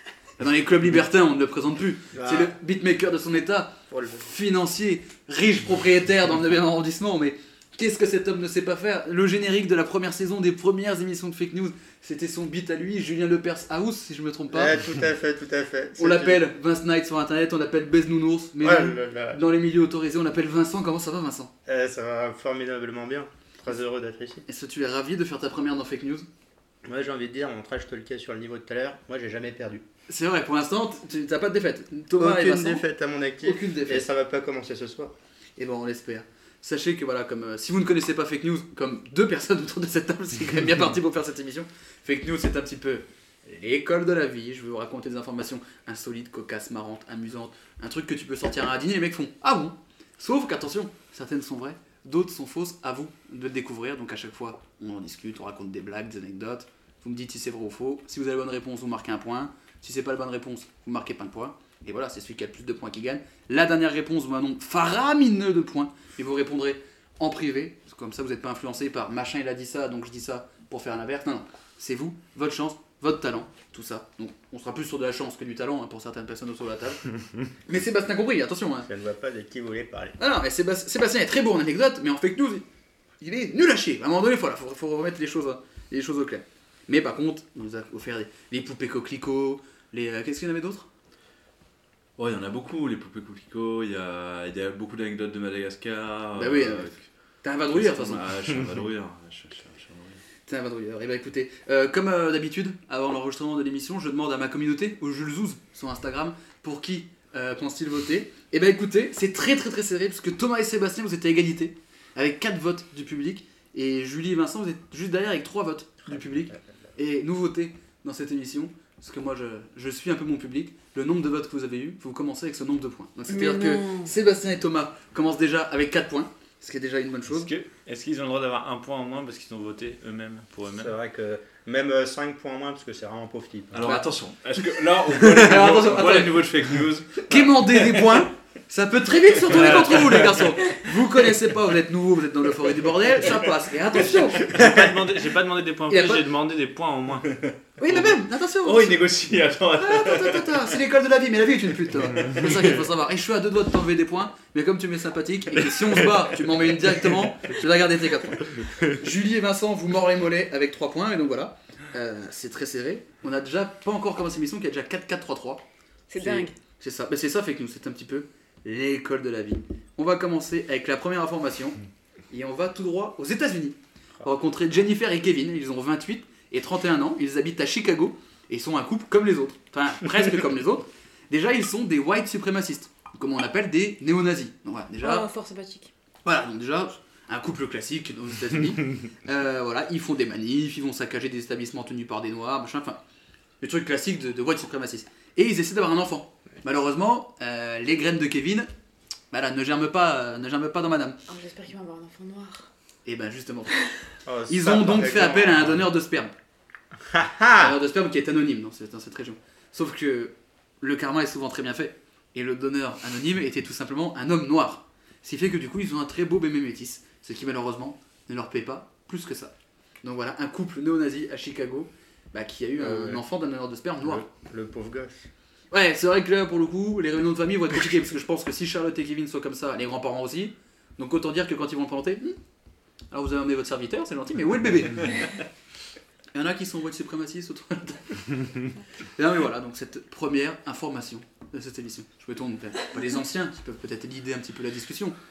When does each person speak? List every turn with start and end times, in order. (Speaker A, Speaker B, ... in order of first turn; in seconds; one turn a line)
Speaker A: 0.4-14.8
Speaker B: 2.1-2.5
Speaker B: 3.9-4.3
Speaker B: 14.5-16.4
Speaker A: 16.0-21.5
Speaker B: 18.6-19.4
Speaker B: 21.6-24.4
Speaker A: 24.4-26.3
Speaker B: 26.8-29.8
Speaker A: 30.1-32.8
Speaker B: 32.1-35.1
Speaker A: 33.4-34.1
Speaker A: 35.6-77.1
Speaker A: 77.7-78.9
Speaker B: 78.8-80.2
Speaker A: 80.2-82.7
Speaker A: 83.2-90.9
Speaker C: 92.2-97.0
Speaker A: 96.3-98.2
Speaker C: 97.7-100.2
Speaker A: 100.5-127.5
Speaker B: 116.1-116.6
Speaker D: 123.3-124.1
Speaker E: 127.3-130.9
Speaker B: 130.7-133.9
Speaker C: 133.7-138.2
Speaker A: 133.8-136.5
Speaker A: 137.2-144.5
Speaker E: 139.5-140.4
Speaker C: 139.6-140.0
Speaker E: 144.3-147.3
Speaker A: 145.9-146.2
Speaker C: 147.3-150.7
Speaker A: 147.8-149.2
Speaker A: 149.7-165.6
Speaker C: 152.1-152.6
Speaker D: 166.1-166.5
Speaker A: 166.2-171.8
Speaker A: 172.3-185.3
Speaker D: 185.0-185.9
Speaker A: 186.2-193.0
Speaker A: 193.6-198.7
Speaker A: 199.3-201.2
Speaker D: 201.3-202.7
Speaker A: 203.0-203.8
Speaker B: 204.2-205.8
Speaker A: 204.5-206.3
Speaker B: 207.0-207.8
Speaker A: 207.5-219.5
Speaker A: 220.0-224.2
Speaker B: 222.8-223.2
Speaker B: 224.0-225.3
Speaker A: 225.7-232.4
Speaker A: 233.1-235.3
Speaker A: 236.3-238.4
Speaker A: 239.2-245.2